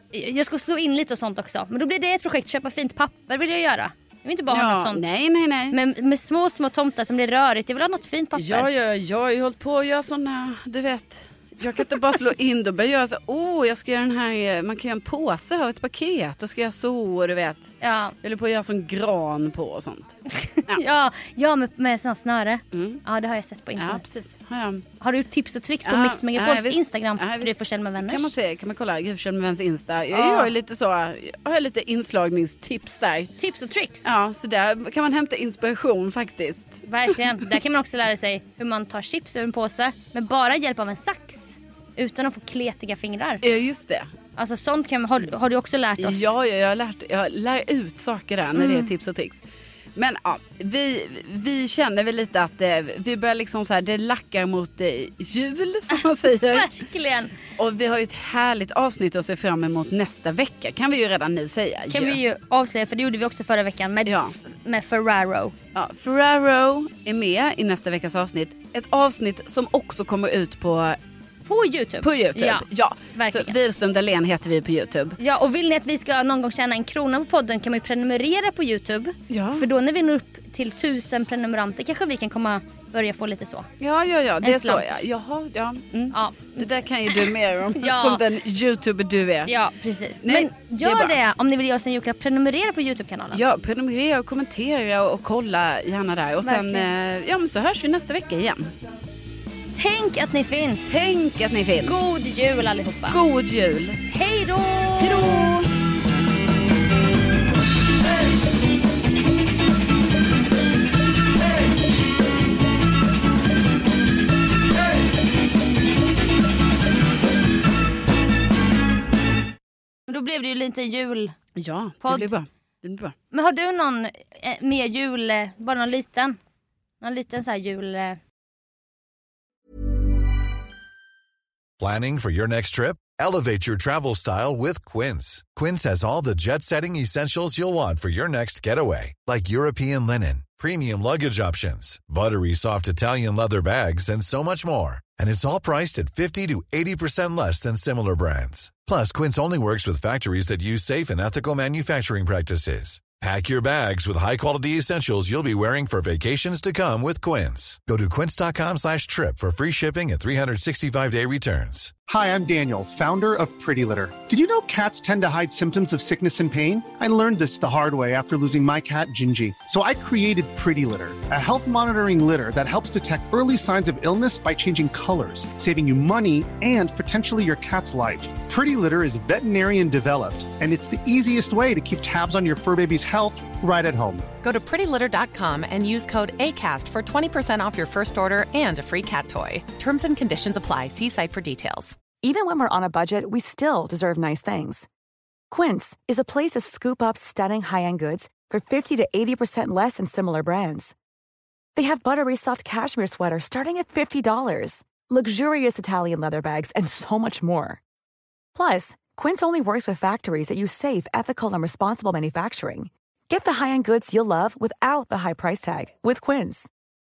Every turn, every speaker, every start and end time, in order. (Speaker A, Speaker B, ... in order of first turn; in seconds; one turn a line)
Speaker A: 0.1-5.1
Speaker B: 4.5-5.8
Speaker A: 5.7-8.7
Speaker B: 8.3-20.1
Speaker A: 17.8-18.2
Speaker A: 20.4-24.1
Speaker B: 22.7-23.0
Speaker B: 23.8-24.9
Speaker A: 25.0-28.4
Speaker B: 25.9-33.3
Speaker A: 30.1-30.5
Speaker A: 33.4-34.1
Speaker B: 34.0-36.8
Speaker A: 36.9-43.4
Speaker B: 43.4-44.1
Speaker A: 44.4-46.3
Speaker B: 46.0-49.4
Speaker A: 48.6-48.9
Speaker B: 50.0-56.7
Speaker A: 56.5-57.3
Speaker B: 57.6-62.2
Speaker A: 61.9-65.5
Speaker B: 64.1-64.3
Speaker B: 65.8-71.0
Speaker A: 71.5-73.6
Speaker B: 72.0-75.2
Speaker A: 75.2-83.7
Speaker B: 79.3-79.7
Speaker B: 83.8-89.5
Speaker A: 84.4-85.0
Speaker A: 86.1-88.2
Speaker A: 89.5-93.4
Speaker B: 90.2-91.2
Speaker B: 93.3-98.7
Speaker A: 96.4-96.9
Speaker A: 99.7-101.0
Speaker B: 100.9-102.0
Speaker A: 101.8-103.2
Speaker B: 103.1-104.0
Speaker A: 104.1-105.4
Speaker B: 105.0-105.7
Speaker A: 120.1-121.4
Speaker B: 121.6-123.2
Speaker A: 122.0-122.3
Speaker A: 123.3-126.4
Speaker A: 127.0-128.2
Speaker C: 131.8-161.9
Speaker D: 162.1-184.3
Speaker E: 184.4-192.0
Speaker F: 192.2-194.9
Speaker F: 195.5-200.9
Speaker F: 201.8-207.8
Speaker F: 208.5-216.7